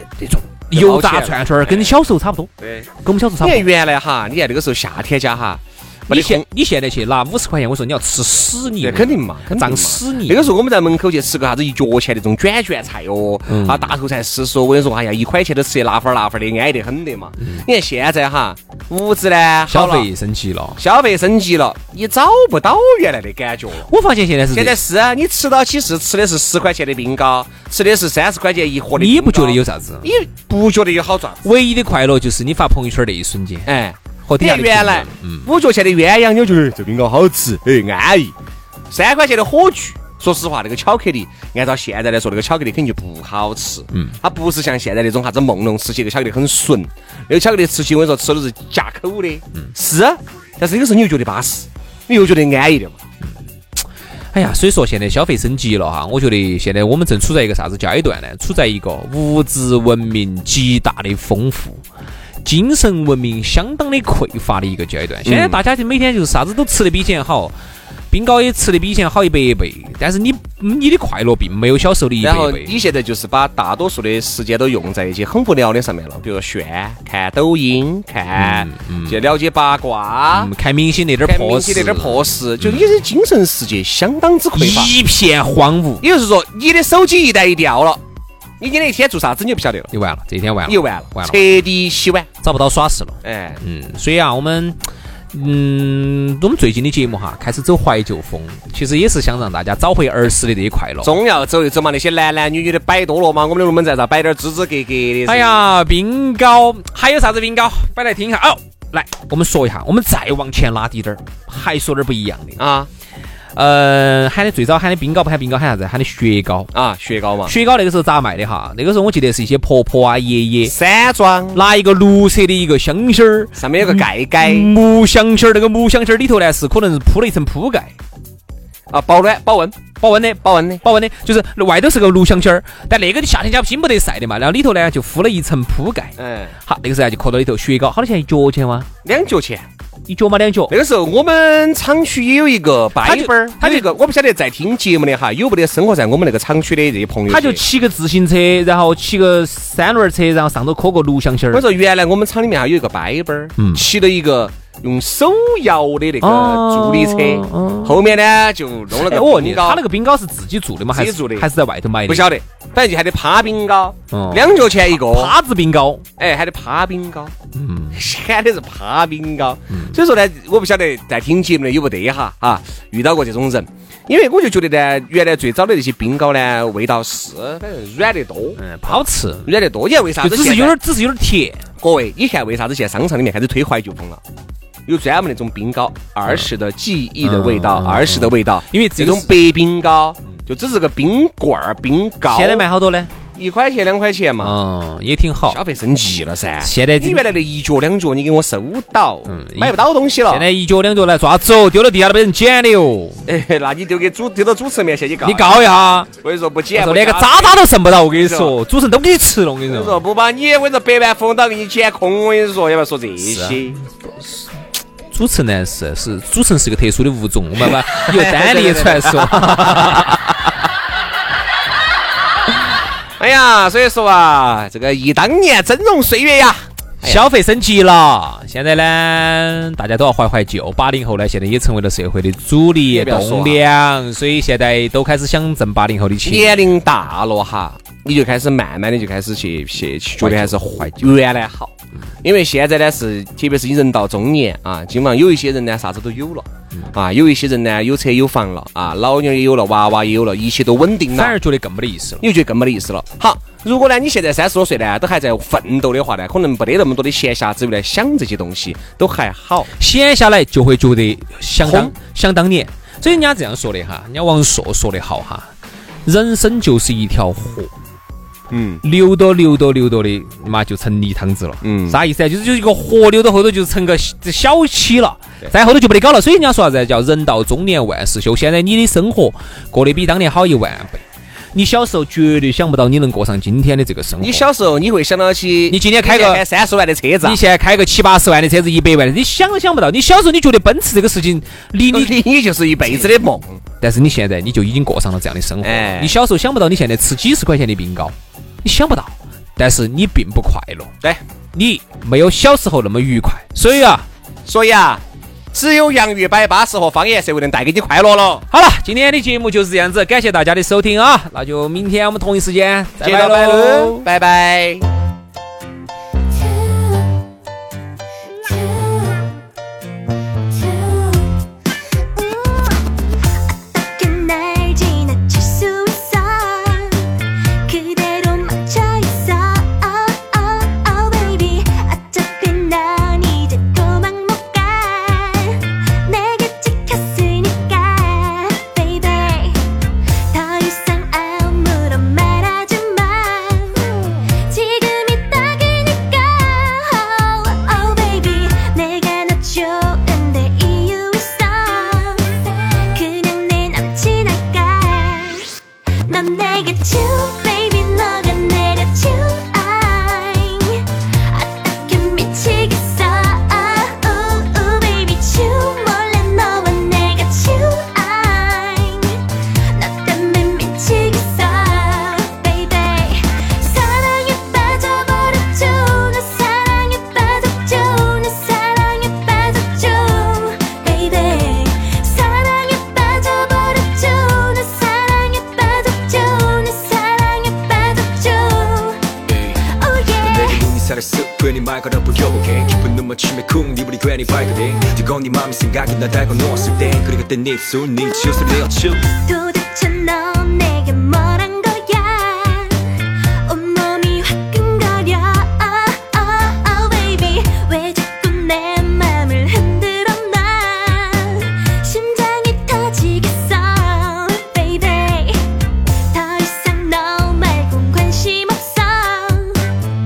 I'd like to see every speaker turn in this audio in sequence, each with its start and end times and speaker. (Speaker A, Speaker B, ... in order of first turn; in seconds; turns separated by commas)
Speaker A: 0.2-2.5, Speaker B: 0.7-2.0, Speaker B: 2.6-2.9, Speaker A: 3.0-3.7, Speaker B: 3.4-6.5, Speaker A: 6.1-10.5, Speaker B: 8.8-20.1, Speaker A: 13.5-13.9, Speaker A: 19.7-20.8, Speaker B: 20.8-23.9, Speaker A: 23.8-24.8, Speaker B: 24.5-31.4, Speaker A: 28.9-30.1, Speaker A: 31.4-33.7, Speaker B: 33.7-38.3, Speaker A: 34.2-35.5, Speaker B: 38.9-53.0, Speaker A: 54.3-61.8, Speaker A: 62.4-67.5, Speaker B: 65.2-65.6, Speaker A: 68.1-72.8, Speaker B: 72.2-80.5, Speaker A: 78.3-79.3, Speaker A: 80.3-83.0, Speaker B: 81.2-84.9, Speaker A: 84.6-86.0, Speaker B: 86.0-88.0, Speaker B: 88.6-89.9, Speaker A: 89.9-91.4, Speaker B: 90.7-92.3, Speaker A: 92.4-94.8, Speaker B: 93.2-93.6, Speaker A: 95.3-101.2, Speaker B: 101.0-105.6, Speaker A: 105.3-112.6, Speaker B: 112.6-112.9, Speaker A: 113.5-116.7, Speaker B: 116.7-117.5, Speaker A: 117.5-120.7, Speaker B: 120.6-121.6, Speaker A: 121.5-127.9, Speaker B: 123.6-124.7, Speaker B: 128.9-129.8, Speaker A: 130.0-138.9, Speaker B: 130.4-130.8, Speaker B: 136.2-136.6, Speaker B: 139.1-139.7, Speaker A: 140.1-140.8, Speaker B: 140.7-147.6, Speaker A: 143.0-143.9, Speaker A: 147.3-151.7, Speaker B: 151.5-159.8, Speaker A: 153.6-153.9, Speaker A: 156.2-158.0, Speaker A: 158.9-162.3, Speaker B: 160.9-161.5, Speaker B: 162.1-165.3, Speaker A: 164.1-166.1, Speaker B: 166.2-167.3, Speaker A: 167.6-168.0, Speaker B: 167.9-180.8, Speaker A: 169.7-170.0, Speaker A: 178.6-179.5, Speaker A: 180.2-181.6, Speaker B: 181.8-184.2, Speaker B: 184.9-192.7, Speaker A: 187.2-189.3, Speaker A: 192.3-193.1, Speaker B: 193.3-194.6, Speaker A: 194.4-195.6, Speaker B: 195.5-200.5, Speaker A: 196.6-197.2, Speaker A: 199.3-199.8, Speaker A: 200.3-203.2, Speaker B: 203.3-205.6, Speaker A: 205.2-206.1, Speaker B: 206.1-208.6, Speaker A: 206.7-210.0, Speaker B: 209.7-213.8, Speaker A: 213.2-214.5, Speaker A: 215.1-220.3, Speaker B: 217.6-220.2, Speaker B: 223.2-227.2, Speaker A: 227.0-236.6, Speaker B: 232.9-233.6, Speaker B: 236.2-241.7, Speaker A: 240.2-241.1, Speaker B: 242.2-251.4, Speaker A: 251.1-252.2, Speaker B: 252.2-259.7, Speaker A: 259.8-265.5, Speaker B: 261.6-261.9, Speaker A: 266.1-267.7, Speaker B: 268.5-268.8, Speaker A: 268.8-281.0, Speaker B: 271.6-272.0, Speaker A: 281.5-284.5, Speaker B: 284.2-287.4, Speaker A: 285.7-286.4, Speaker A: 287.2-292.2, Speaker B: 291.9-293.6, Speaker A: 293.8-300.9, Speaker B: 295.6-296.1, Speaker A: 301.5-304.1, Speaker B: 304.5-305.0, Speaker B: 305.5-308.4, Speaker A: 308.5-314.1, Speaker B: 313.0-314.9, Speaker C: 320.6-321.2, Speaker C: 322.2-322.8, Speaker C: 323.7-339.7, Speaker C: 340.3-390.7, Speaker D: 390.3-399.1, Speaker C: 398.9-419.8